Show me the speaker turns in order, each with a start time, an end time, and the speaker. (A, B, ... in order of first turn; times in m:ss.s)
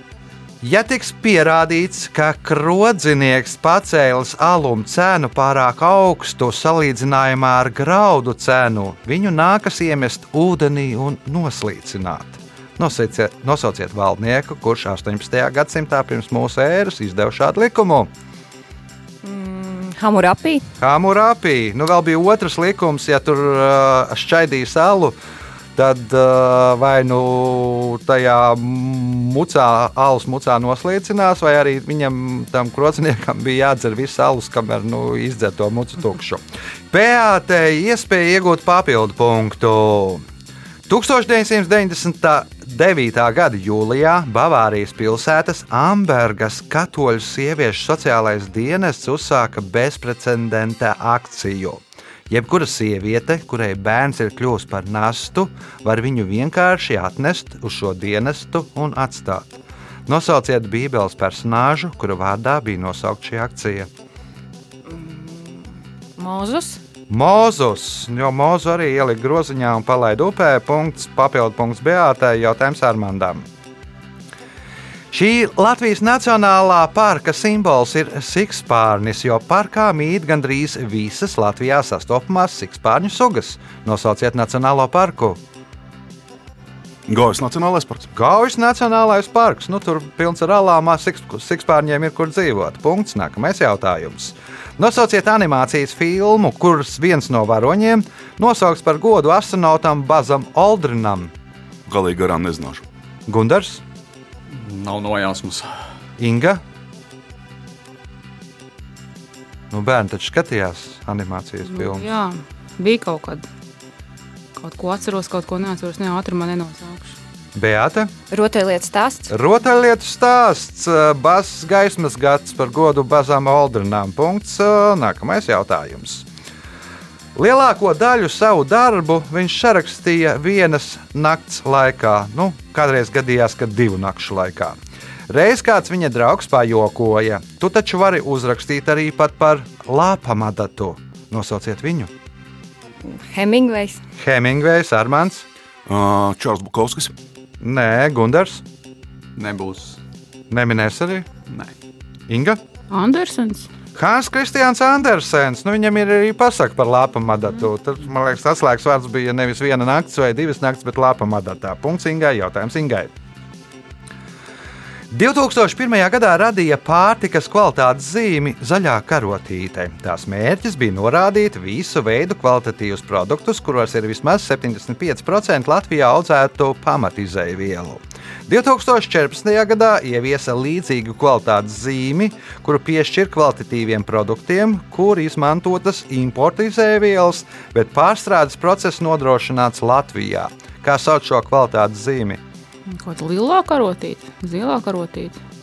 0:00.6-0:18.1 A
0:19.2-0:20.7 B
0:20.8-0:25.2 A
0:25.8-0:40.2 A
0:40.9-1:03.9 A
1:04.9-1:06.8 B
1:07.1-1:13.5 A
1:15.1-1:25.4 A
1:27.1-1:28.1 C
1:28.1-1:41.3 A
1:41.9-1:42.8 C
1:43.3-1:43.8 A
1:44.5-1:45.8 D
1:46.2-1:46.6 A
1:49.7-1:52.1 A
1:51.7-1:53.5 E
1:54.6-1:57.2 E
1:57.6-1:58.1 A
1:58.3-1:59.3 B
1:59.3-2:06.3 A
2:07.4-2:14.8 A
2:15.3-2:22.1 A
2:23.0-2:24.0 B
2:24.2-2:25.4 A
2:25.9-2:27.1 C
2:27.6-2:28.6 A
2:29.4-2:30.0 D
2:30.5-2:31.3 A
2:31.5-2:31.7 D
2:32.3-2:32.6 A
2:32.9-2:33.7 E
2:34.0-2:43.1 A
2:45.1-3:12.4 A
3:12.9-3:15.4 E